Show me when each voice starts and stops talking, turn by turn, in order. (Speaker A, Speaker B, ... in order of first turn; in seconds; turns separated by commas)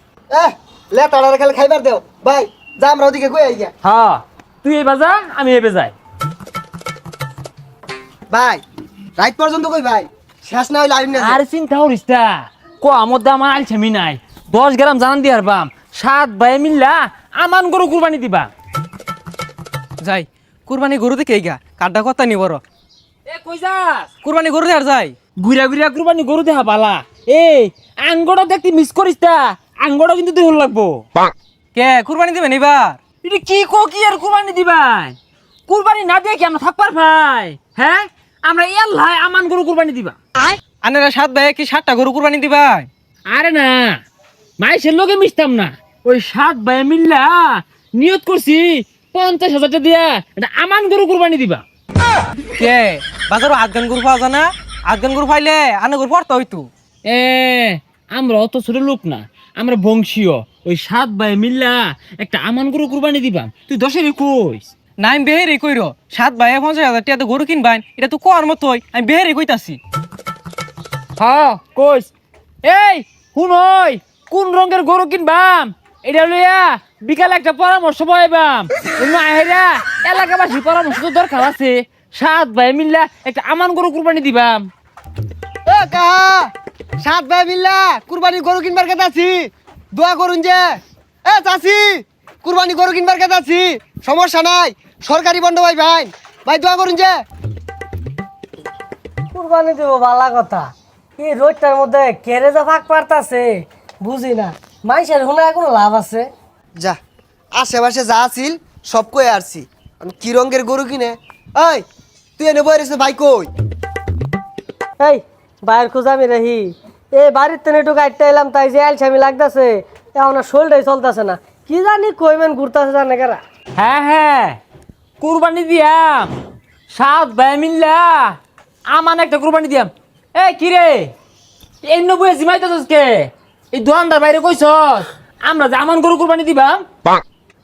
Speaker A: 0.3-3.7, Speaker B: 3.8-5.9, Speaker A: 8.3-8.6, Speaker A: 9.2-11.4, Speaker B: 11.2-18.5, Speaker C: 20.0-22.6, Speaker B: 23.3-24.1, Speaker C: 24.2-25.1, Speaker B: 25.4-31.0, Speaker C: 31.7-33.0, Speaker B: 33.2-35.1, Speaker B: 35.7-40.1, Speaker C: 40.8-42.9, Speaker B: 43.3-44.0, Speaker B: 44.6-51.6, Speaker C: 52.6-56.7, Speaker B: 57.0-64.7, Speaker C: 65.0-69.8, Speaker B: 71.2-72.1, Speaker B: 72.6-84.7, Speaker A: 85.7-86.5, Speaker A: 87.0-97.1, Speaker D: 99.3-106.3, Speaker A: 107.5-111.8, Speaker A: 112.4-113.5, Speaker D: 115.0-123.4, Speaker B: 123.8-124.6, Speaker B: 125.2-126.3, Speaker B: 126.9-128.3, Speaker B: 128.9-131.1, Speaker B: 131.8-136.8